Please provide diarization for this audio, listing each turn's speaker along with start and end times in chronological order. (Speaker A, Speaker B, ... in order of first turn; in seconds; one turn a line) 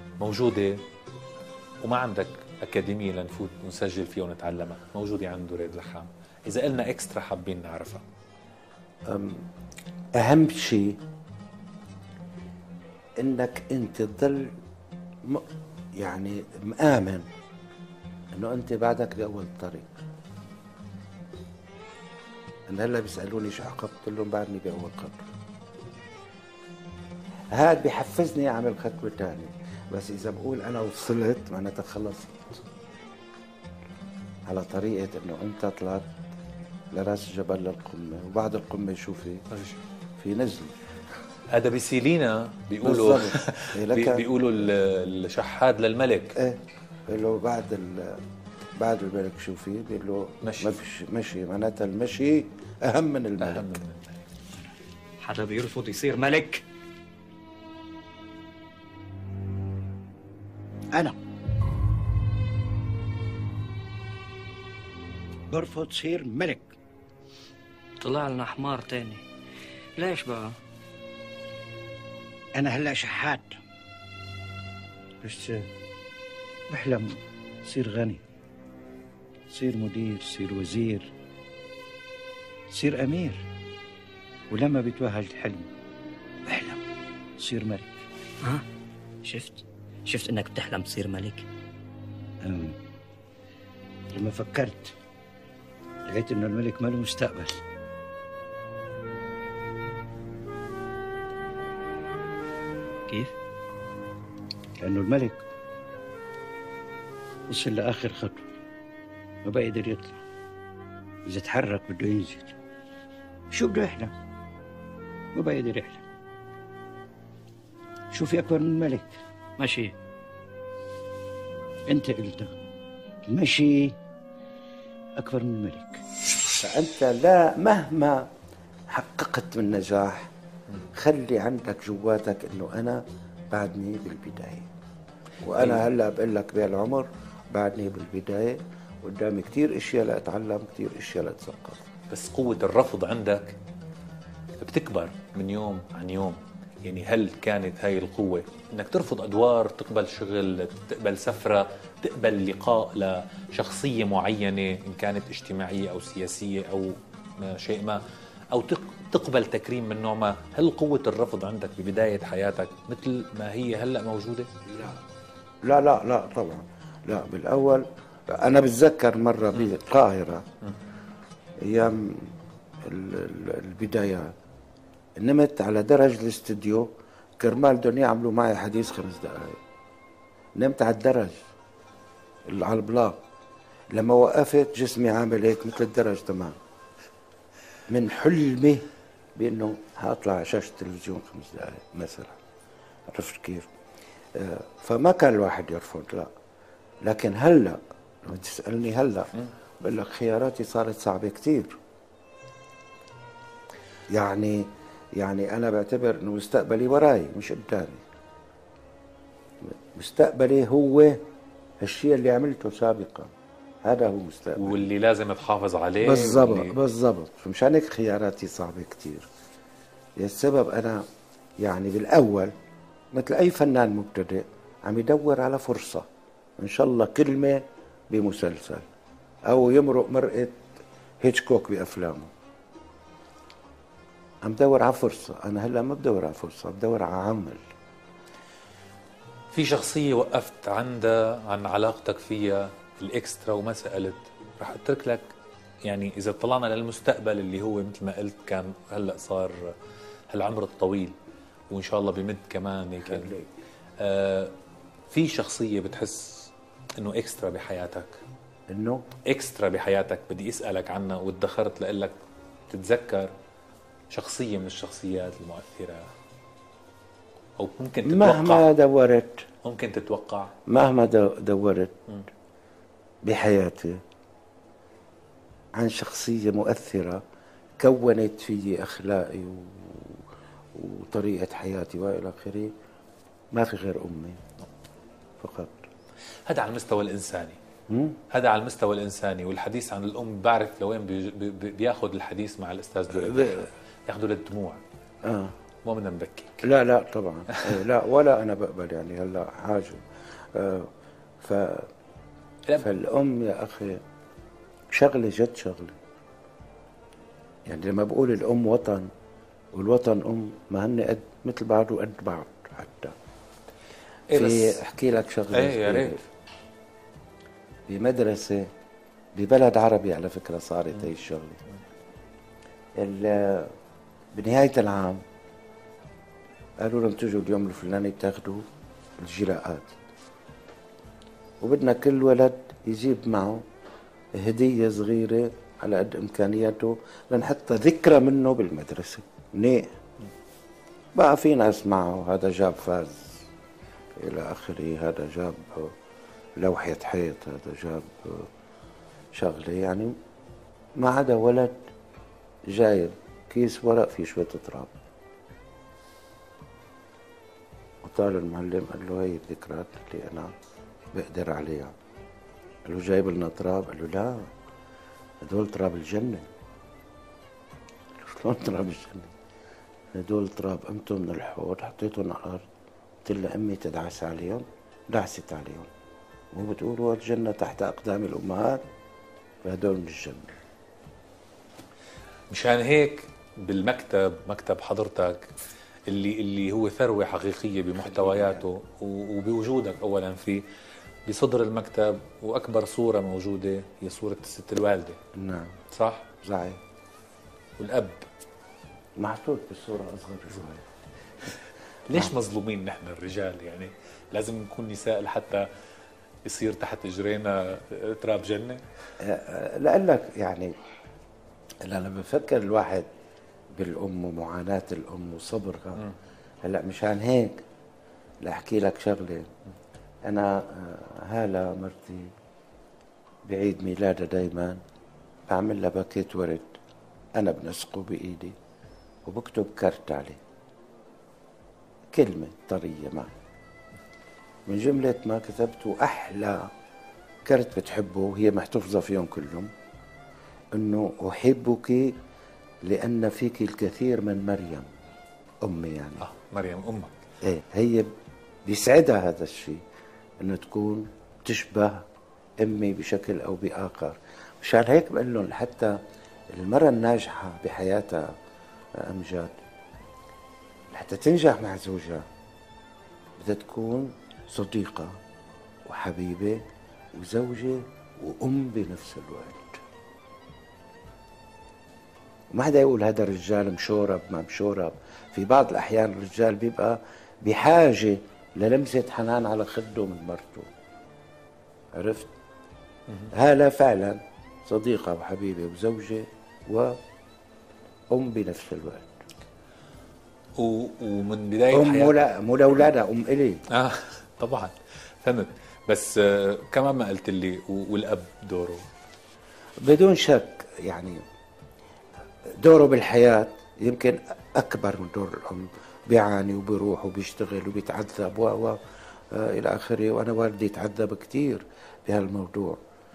Speaker A: 0.2-0.8
Speaker A: 1.8-8.0
Speaker B: 9.1-9.4
Speaker B: 10.1-11.0
Speaker B: 13.2-14.5
Speaker B: 16.0-17.3
Speaker B: 18.3-19.9
Speaker B: 22.7-25.3
Speaker B: 27.5-32.6
Speaker B: 34.5-36.1
Speaker B: 36.9-39.4
Speaker A: 39.5-39.8
Speaker B: 40.2-40.8
Speaker A: 41.5-46.4
Speaker B: 42.8-44.2
Speaker B: 46.4-48.2
Speaker B: 48.8-53.8
Speaker A: 50.4-50.8
Speaker A: 53.4-54.2
Speaker C: 55.2-56.6
Speaker B: 65.5-66.7
Speaker C: 68.0-69.2
Speaker C: 70.0-70.5
Speaker B: 72.5-73.6
Speaker B: 75.2-75.7
Speaker B: 76.7-78.2
Speaker B: 79.5-81.1
Speaker B: 82.7-83.4
Speaker B: 84.5-85.7
Speaker B: 86.5-86.8
Speaker B: 87.4-88.0
Speaker C: 89.2-91.4
Speaker B: 92.4-92.8
Speaker B: 94.1-94.9
Speaker B: 96.1-97.6
Speaker B: 104.8-105.4
Speaker B: 107.5-108.5
Speaker B: 109.4-110.2
Speaker B: 111.3-112.6
Speaker B: 113.5-114.1
Speaker B: 115.3-116.0
Speaker B: 118.1-119.9
Speaker B: 121.9-122.5
Speaker B: 123.3-124.0
Speaker B: 125.2-126.0
Speaker B: 126.6-128.3
Speaker B: 128.9-130.3
Speaker B: 130.9-134.7
Speaker B: 135.4-141.8
Speaker A: 135.6-135.8
Speaker A: 142.1-143.6
Speaker A: 144.6-158.0
Speaker A: 158.5-164.5
Speaker B: 164.7-165.0
Speaker B: 165.6-170.4
Speaker B: 171.6-174.3
Speaker B: 175.2-179.6
Speaker B: 180.6-181.4
Speaker B: 182.5-183.2
Speaker B: 183.9-186.6
Speaker B: 187.9-192.4
Speaker B: 193.1-193.7
Speaker B: 194.3-196.3
Speaker B: 197.0-201.8
Speaker B: 204.1-208.0
Speaker B: 209.6-211.2
Speaker B: 211.8-214.9
Speaker A: 214.6-216.8
Speaker B: 216.0-219.3
Speaker B: 220.2-221.1
Speaker B: 221.6-222.5
Speaker B: 223.1-226.1
Speaker B: 226.6-228.8
Speaker B: 229.5-230.6
Speaker B: 231.2-232.3
Speaker B: 234.4-237.6
Speaker A: 239.5-245.3
Speaker A: 245.8-249.7
Speaker A: 250.3-251.2
Speaker A: 251.7-253.3
Speaker B: 253.0-253.5
Speaker A: 254.0-254.5
Speaker A: 255.1-258.2
Speaker B: 258.7-259.0
Speaker A: 259.2-262.1
Speaker A: 262.7-263.3
Speaker A: 264.1-266.1
Speaker A: 267.6-268.7
Speaker B: 268.0-269.4
Speaker A: 269.6-270.5
Speaker B: 270.7-271.9
Speaker B: 273.2-274.0
Speaker B: 275.7-277.2
Speaker B: 277.8-280.2
Speaker B: 280.7-282.7
Speaker B: 283.5-284.4
Speaker B: 285.4-285.9
Speaker A: 286.5-287.6
Speaker B: 287.9-288.2
Speaker A: 288.3-294.8
Speaker B: 293.1-293.6
Speaker B: 295.2-295.5
Speaker A: 295.8-296.7
Speaker B: 296.6-301.9
Speaker B: 302.8-304.0
Speaker B: 304.9-306.0
Speaker B: 307.6-309.1
Speaker B: 309.7-313.1
Speaker A: 314.3-314.8
Speaker B: 314.3-316.2
Speaker A: 315.5-316.2
Speaker B: 317.9-318.7
Speaker B: 319.3-321.6
Speaker B: 323.0-323.7
Speaker B: 324.3-325.2
Speaker B: 326.8-328.6
Speaker B: 329.2-329.9
Speaker B: 331.6-333.6
Speaker B: 334.3-339.9
Speaker B: 341.1-343.4
Speaker B: 344.1-345.9
Speaker B: 346.6-348.5
Speaker B: 349.3-350.1
Speaker B: 351.0-351.8
Speaker B: 352.7-354.9
Speaker B: 358.0-360.5
Speaker B: 361.1-361.9
Speaker B: 362.9-364.5
Speaker B: 365.4-366.5
Speaker B: 368.2-369.3
Speaker B: 370.1-372.6
Speaker B: 373.2-375.9
Speaker B: 376.5-378.8
Speaker B: 379.6-380.6
Speaker A: 382.5-385.5
Speaker A: 386.1-390.6
Speaker B: 388.0-388.7
Speaker A: 391.2-395.2
Speaker B: 395.3-395.8
Speaker A: 395.9-396.3
Speaker B: 396.4-396.8
Speaker A: 397.8-398.2
Speaker B: 399.2-400.8
Speaker A: 402.1-405.7
Speaker A: 406.4-408.8
Speaker B: 409.2-410.7
Speaker B: 411.8-413.1
Speaker B: 413.7-416.0
Speaker B: 416.6-417.6
Speaker B: 418.4-419.5
Speaker B: 420.2-422.3
Speaker B: 423.4-424.8
Speaker B: 425.5-426.8
Speaker B: 427.4-428.6
Speaker B: 429.2-430.4
Speaker B: 432.1-433.3
Speaker B: 434.7-436.7
Speaker B: 437.4-439.7
Speaker B: 440.7-442.2
Speaker B: 442.8-444.9
Speaker B: 445.6-446.2
Speaker A: 446.2-447.1
Speaker B: 447.4-448.1
Speaker B: 448.6-449.8
Speaker B: 450.4-452.1
Speaker B: 452.6-456.0
Speaker B: 456.5-458.3
Speaker B: 458.9-459.5
Speaker B: 460.9-462.3
Speaker B: 463.4-465.2
Speaker B: 465.8-469.8
Speaker B: 472.5-480.7
Speaker B: 481.9-482.3
Speaker B: 483.3-487.0
Speaker B: 488.1-489.2
Speaker A: 490.6-492.1
Speaker B: 491.7-493.6
Speaker A: 493.7-498.8
Speaker B: 499.8-501.2
Speaker B: 502.5-508.8
Speaker B: 509.3-512.8